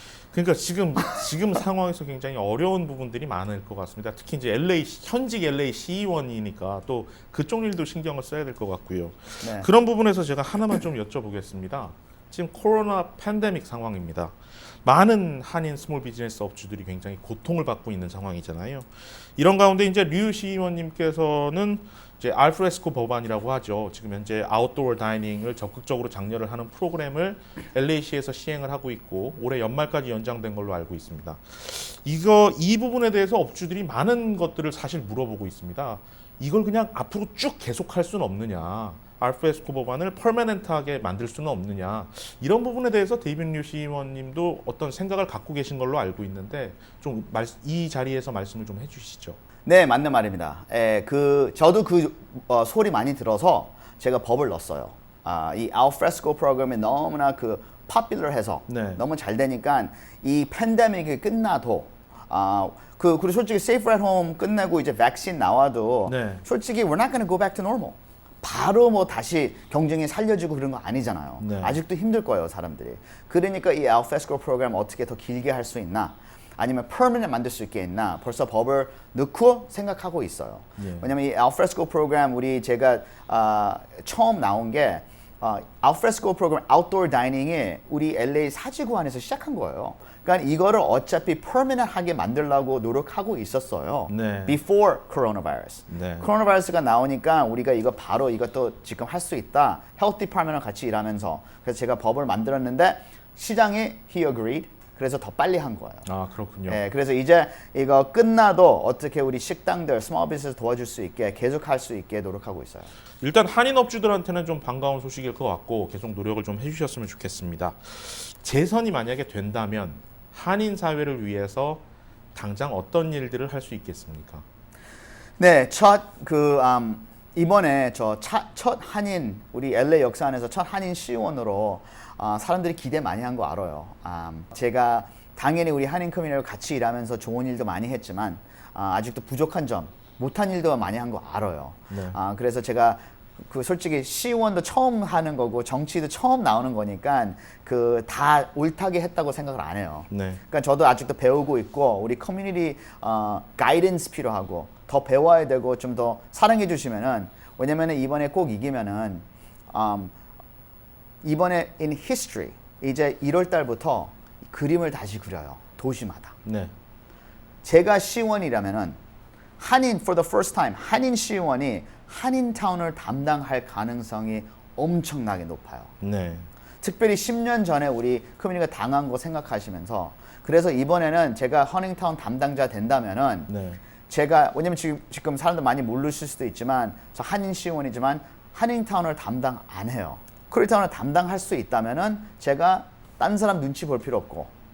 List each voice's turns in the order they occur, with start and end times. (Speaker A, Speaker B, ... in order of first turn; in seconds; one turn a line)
Speaker A: 0.3-49.4
Speaker B: 9.4-9.7
Speaker B: 49.6-106.1
Speaker A: 58.7-59.0
Speaker A: 66.1-66.4
Speaker A: 71.4-71.8
Speaker A: 80.8-81.1
Speaker A: 94.1-94.6
Speaker A: 95.9-96.3
Speaker A: 106.0-106.8
Speaker B: 106.7-112.9
Speaker A: 113.2-121.8
Speaker A: 122.3-124.4
Speaker B: 125.4-160.1
Speaker A: 141.9-142.2
Speaker A: 150.1-150.4
Speaker B: 161.2-166.3
Speaker A: 166.4-166.7
Speaker B: 167.6-169.0
Speaker B: 169.6-175.9
Speaker A: 176.0-176.5
Speaker B: 176.8-183.5
Speaker A: 183.5-183.8
Speaker B: 184.1-194.5